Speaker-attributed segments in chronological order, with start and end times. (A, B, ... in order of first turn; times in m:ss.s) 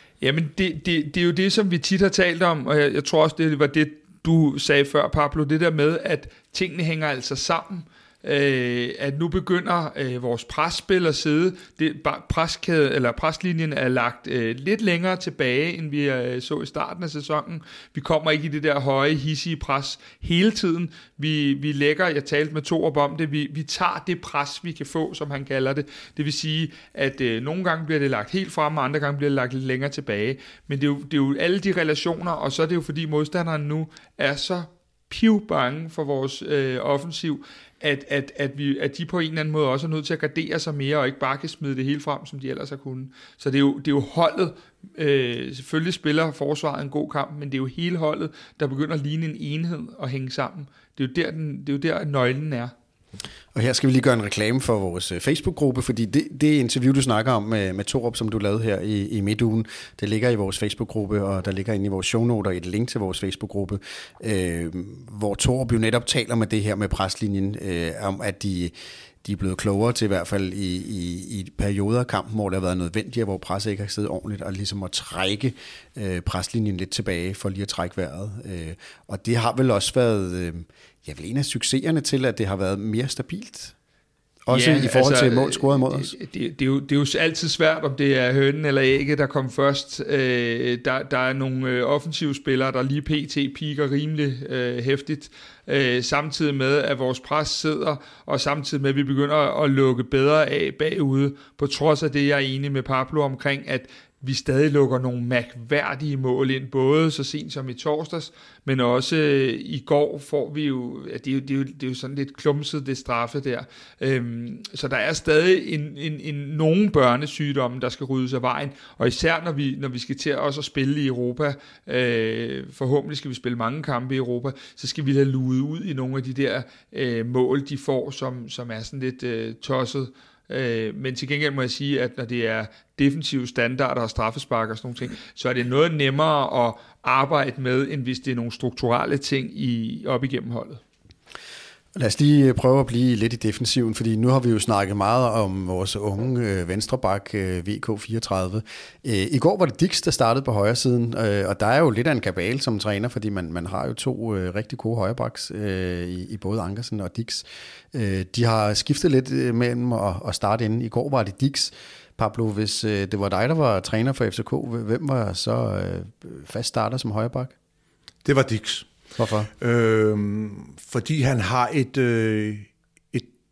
0:00.2-0:52.7 A
0:53.5-1:23.8 B
1:24.5-1:26.1 B
1:24.5-2:20.8 A
2:22.0-2:47.6 B
2:48.2-2:48.9 C
2:49.2-2:49.5 B
2:49.6-2:53.3 C